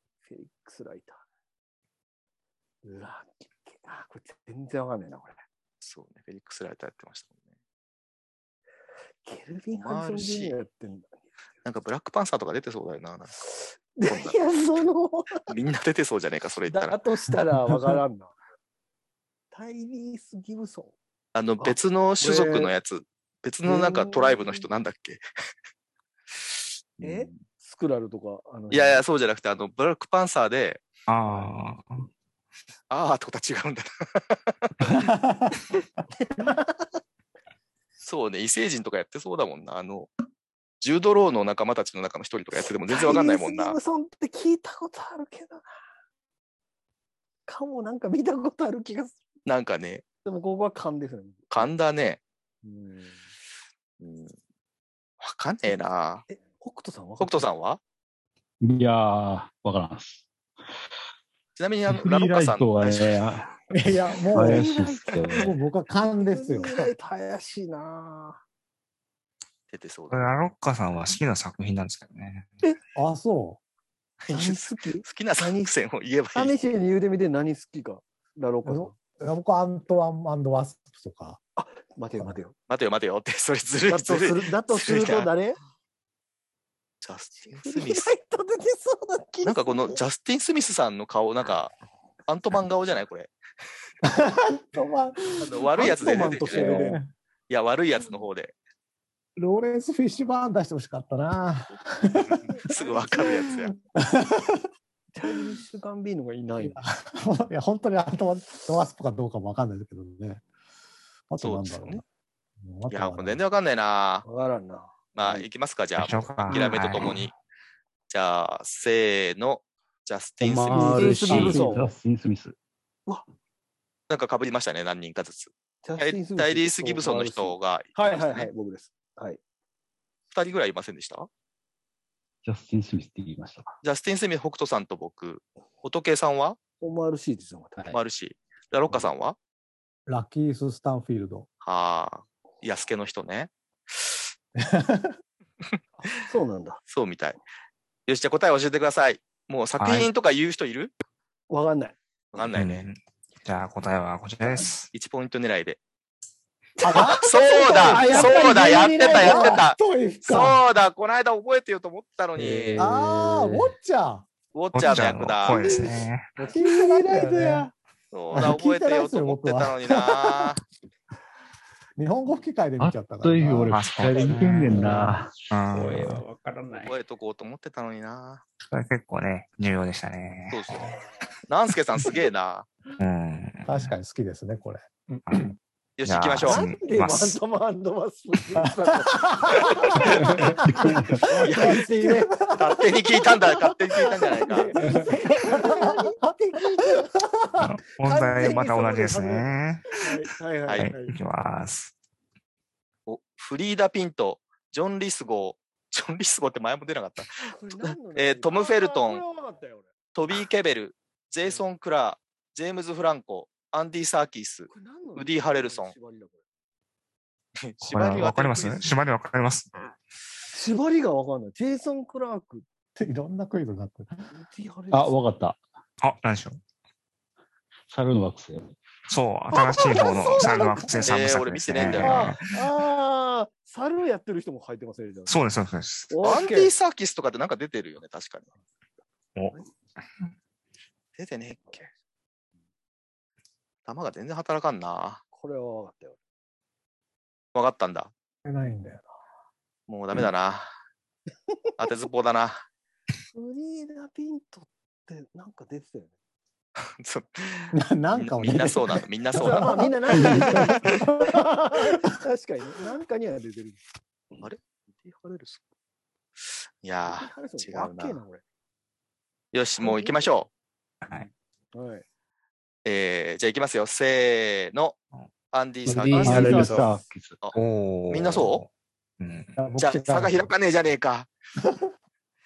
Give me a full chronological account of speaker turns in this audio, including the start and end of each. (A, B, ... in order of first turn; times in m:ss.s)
0:00.2-0:01.2 A
0:02.8-0:05.4 A
0:05.8-0:07.3 B
0:09.2-0:11.2 A
0:09.8-0:10.5 B
0:11.6-0:13.4 B
0:13.5-0:15.4 A
0:14.1-0:14.4 B
0:15.5-0:17.0 B
0:16.7-0:18.3 A
0:19.5-0:21.0 A
0:21.3-0:25.2 B
0:21.6-0:22.7 A
0:23.6-0:24.6 A
0:27.0-0:29.0 A
0:28.7-0:30.8 B
0:31.1-0:32.1 C
0:32.9-0:35.0 B
0:34.9-0:35.6 D
0:36.2-0:36.8 A
0:38.0-0:40.1 B
0:40.8-0:43.8 B
0:42.9-0:45.7 A
0:47.5-0:49.2 A
0:49.4-0:50.0 B
0:50.2-0:51.7 A
0:51.5-0:52.2 B
0:52.6-0:53.3 A
0:54.0-0:54.3 B
0:55.2-0:56.2 B
0:56.3-0:57.5 A
0:57.2-0:57.8 B
0:58.6-1:00.2 E
1:01.6-1:03.2 B
1:01.9-1:03.5 E
1:03.7-1:04.6 D
1:04.3-1:05.5 E
1:04.3-1:05.5 A
1:05.4-1:06.8 D
1:06.2-1:08.4 A
1:09.7-1:10.3 B
1:10.1-1:12.5 C
1:12.9-1:13.6 D
1:14.2-1:16.5 B
1:14.3-1:15.7 A
1:16.3-1:18.9 A
1:18.6-1:21.4 D
1:21.6-1:22.5 A
1:22.7-1:25.3 B
1:23.9-1:25.6 A
1:27.0-1:28.1 B
1:27.5-1:30.0 A
1:29.4-1:31.7 B
1:32.3-1:33.3 B
1:34.0-1:37.1 D
1:35.4-1:36.9 B
1:35.7-1:37.0 A
1:37.5-1:38.5 B
1:39.4-1:42.5 D
1:42.5-1:43.5 A
1:42.6-1:43.7 B
1:43.2-1:44.6 D
1:45.1-1:46.8 A
1:46.6-1:50.4 D
1:51.3-1:52.0 D
1:51.4-1:52.0 B
1:52.6-1:53.4 D
1:52.9-1:54.2 B
1:54.2-1:55.5 A
1:55.1-1:57.3 B
1:56.0-1:57.3 C
1:58.1-2:01.2 B
2:00.4-2:01.8 F
2:00.4-2:02.5 E
2:00.8-2:01.8 D
2:01.0-2:01.9 A
2:04.1-2:08.5 B
2:05.8-2:09.4 A
2:10.3-2:11.3 B
2:12.4-2:13.8 E
2:13.8-2:16.6 B
2:16.8-2:17.8 A
2:17.9-2:19.4 B
2:20.1-2:21.5 D
2:21.6-2:24.2 B
2:24.6-2:25.2 D
2:26.0-2:26.8 A
2:26.9-2:27.4 B
2:28.1-2:30.9 B
2:29.8-2:30.1 C
2:31.5-2:32.0 A
2:32.3-2:32.9 B
2:32.5-2:34.9 C
2:34.9-2:35.8 B
2:36.8-2:39.6 A
2:36.8-2:40.6 D
2:37.1-2:42.9 B
2:42.4-2:43.7 F
2:42.8-2:44.2 D
2:44.5-2:45.9 B
2:44.7-2:46.3 C
2:46.4-2:47.7 A
2:46.4-2:47.7 D
2:48.1-2:50.6 B
2:48.3-2:50.5 D
2:52.0-2:53.8 D
2:52.8-2:55.5 E
2:53.7-2:56.2 C
2:54.3-2:55.0 F
2:55.7-2:57.0 F
2:56.8-2:58.4 B
2:58.6-3:00.8 C
3:00.5-3:00.9 B
3:01.5-3:02.7 B
3:03.0-3:03.9 C
3:03.6-3:04.9 D
3:05.3-3:05.5 C
3:06.0-3:06.6 B
3:06.0-3:07.4 C
3:06.4-3:10.5 A
3:08.6-3:10.0 D
3:10.6-3:11.2 E
3:10.7-3:12.8 D
3:11.2-3:12.6 A
3:11.4-3:11.8 B
3:12.5-3:14.7 B
3:14.0-3:14.5 D
3:14.4-3:17.1 A
3:15.3-3:16.0 D
3:17.2-3:17.7 D
3:17.6-3:20.0 C
3:18.0-3:21.1 A
3:20.8-3:21.9 C
3:23.1-3:29.2 B
3:27.4-3:29.9 A
3:30.1-3:35.9 B
3:34.7-3:36.4 A
3:37.6-3:38.9 B
3:37.8-3:39.8 C
3:40.5-3:42.6 A
3:43.0-3:44.3 D
3:44.3-3:45.2 A
3:44.9-3:45.6 E
3:46.0-3:46.6 C
3:47.9-3:48.7 E
3:49.1-3:52.5 C
3:49.5-3:51.1 A
3:51.0-3:52.3 B
3:51.8-3:55.4 A
3:55.3-3:56.2 C
3:56.1-3:56.7 A
3:56.2-3:58.5 B
4:01.2-4:01.9 B
4:03.8-4:05.2 B
4:05.3-4:06.2 A
4:07.5-4:08.1 B
4:08.4-4:09.0 D
4:09.9-4:10.7 B
4:11.8-4:12.6 B
4:13.3-4:16.1 A
4:17.0-4:21.0 B
4:17.7-4:21.4 D
4:19.3-4:23.8 A
4:24.4-4:25.6 B
4:26.8-4:28.2 B
4:27.1-4:28.4 A
4:29.5-4:30.5 B
4:29.8-4:30.3 A
4:31.0-4:31.3 C
4:31.7-4:32.0 A
4:32.8-4:35.0 B
4:35.5-4:36.8 B
4:35.8-4:36.8 F
4:35.9-4:37.4 E
4:36.3-4:36.7 D
4:37.5-4:38.7 C
4:38.1-4:38.6 B
4:39.2-4:39.6 C
4:39.6-4:40.5 D
4:39.8-4:41.3 B